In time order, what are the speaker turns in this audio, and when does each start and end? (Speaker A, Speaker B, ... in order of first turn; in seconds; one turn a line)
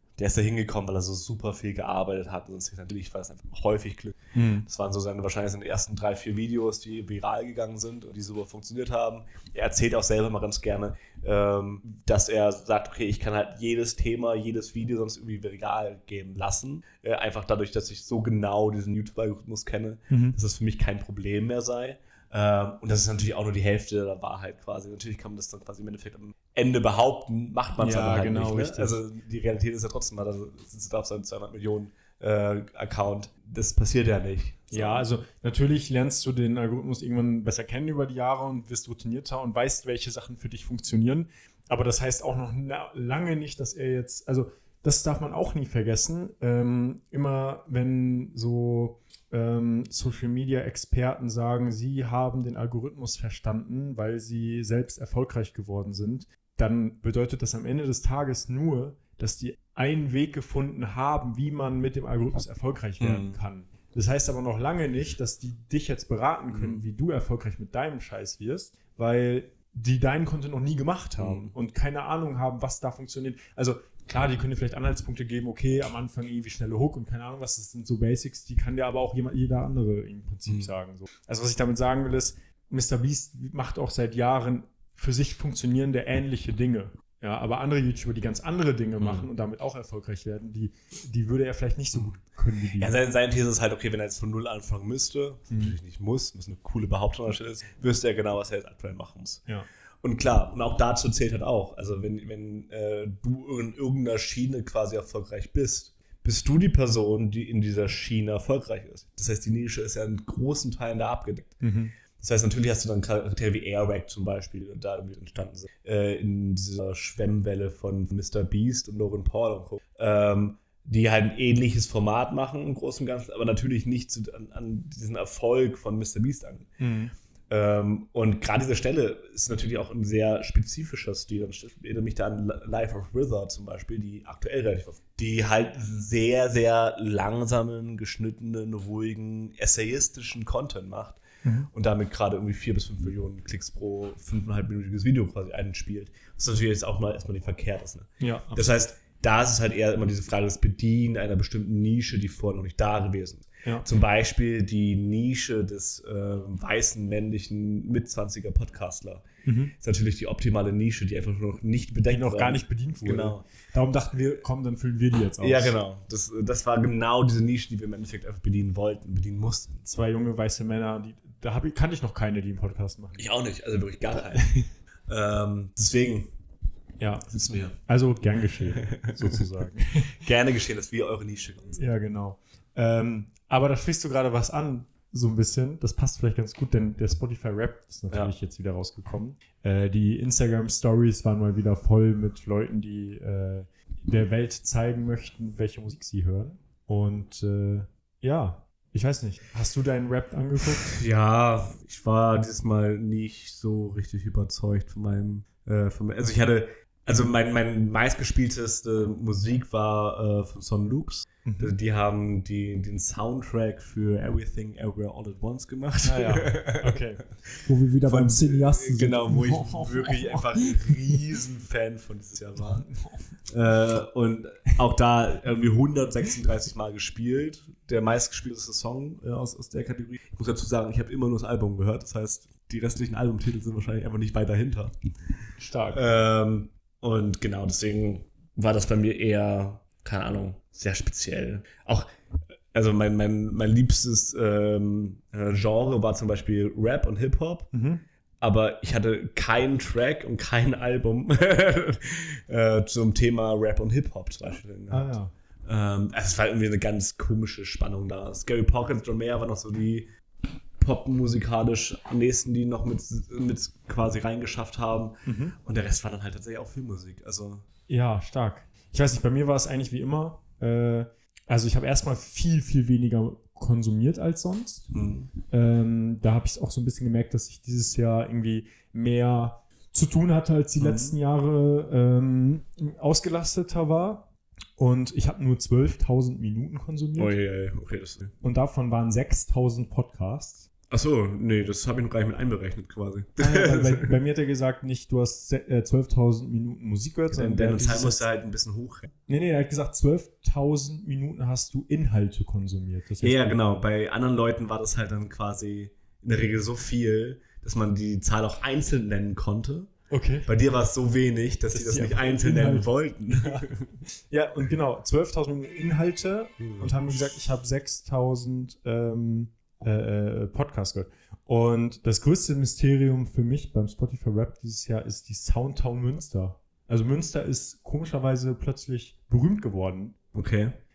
Speaker A: 0.2-35.0
Speaker B: 4.3-4.7
Speaker B: 20.1-20.4
Speaker B: 27.8-29.0
Speaker B: 34.7-93.0
Speaker A: 63.0-63.4
Speaker A: 66.5-66.8
Speaker A: 71.2-71.5
Speaker A: 89.0-89.3
Speaker A: 92.8-99.4
Speaker B: 95.5-95.8
Speaker A: 100.0-111.6
Speaker B: 111.6-112.0
Speaker A: 112.2-126.7
Speaker B: 126.8-127.1
Speaker A: 127.5-159.2
Speaker B: 141.4-141.7
Speaker B: 148.2-148.7
Speaker B: 159.4-159.8
Speaker A: 159.8-163.4
Speaker B: 162.1-165.8
Speaker A: 165.4-169.9
Speaker B: 169.9-173.2
Speaker A: 173.2-176.3
Speaker B: 174.4-174.6
Speaker B: 177.0-180.2
Speaker A: 177.3-177.8
Speaker A: 178.7-179.4
Speaker A: 180.2-181.8
Speaker B: 181.8-201.0
Speaker A: 200.8-222.9
Speaker B: 211.4-211.8
Speaker B: 216.0-220.9
Speaker A: 223.5-234.9
Speaker B: 235.6-236.1
Speaker A: 235.9-242.1
Speaker A: 242.7-247.7
Speaker B: 247.7-248.0
Speaker A: 248.4-260.1
Speaker B: 254.9-255.3
Speaker A: 260.8-267.6
Speaker B: 265.3-265.6
Speaker B: 267.9-287.4
Speaker A: 274.9-275.3
Speaker A: 280.8-281.1
Speaker A: 287.2-288.3
Speaker B: 288.4-290.7
Speaker A: 290.9-294.1
Speaker B: 293.4-298.2
Speaker A: 297.3-299.1
Speaker B: 299.3-303.6
Speaker A: 303.2-309.9
Speaker B: 310.1-310.5
Speaker A: 310.5-313.9
Speaker B: 311.7-313.7
Speaker B: 314.3-330.2
Speaker A: 316.6-316.9
Speaker A: 330.3-330.8